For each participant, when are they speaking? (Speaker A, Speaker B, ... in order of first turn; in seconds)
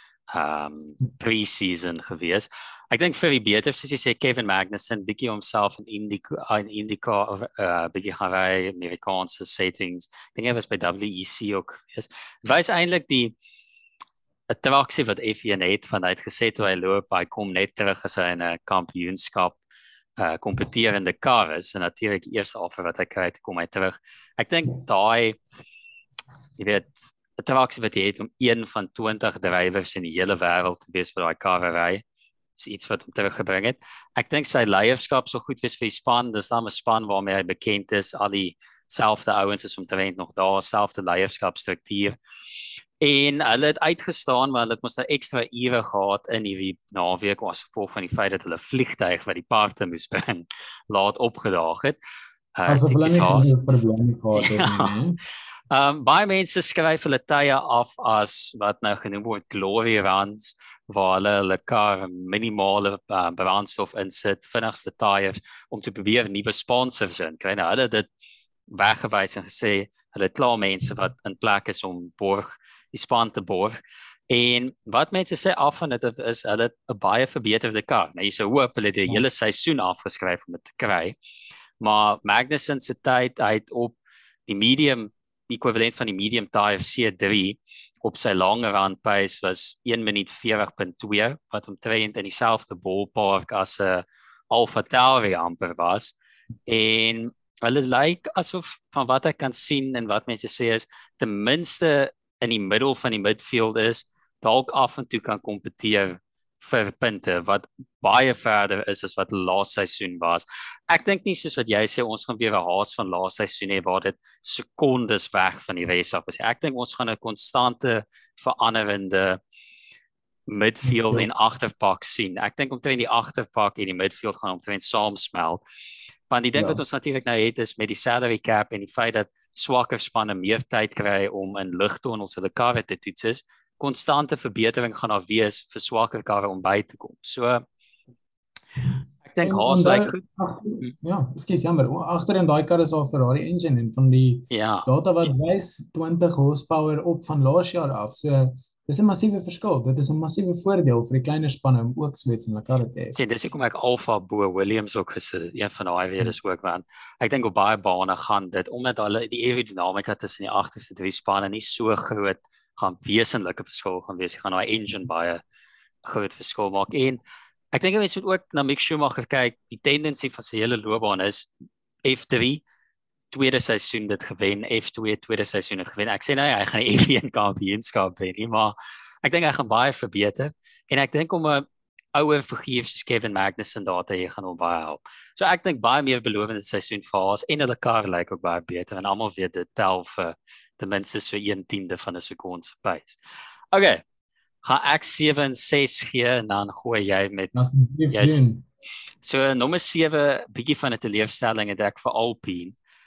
Speaker A: 0.3-13.3, 14.5-19.6, 20.2-25.4, 26.6-32.0, 32.6-42.2, 43.0-52.0, 52.6-53.5, 54.4-54.9, 55.7-68.1, 68.7-81.2, 81.8-96.2, 96.7-119.4, 120.5-125.6, 126.3-137.7, 139.2-140.2, 144.5-144.9, 153.2-165.4, 166.1-167.2, 167.7-171.5, 172.1-172.6, 173.3-193.2, 193.7-194.0, 194.6-198.4, 199.2-202.8
Speaker B: 52.7-55.2, 120.8-121.3, 126.6-126.8, 139.4-153.2, 197.5-198.6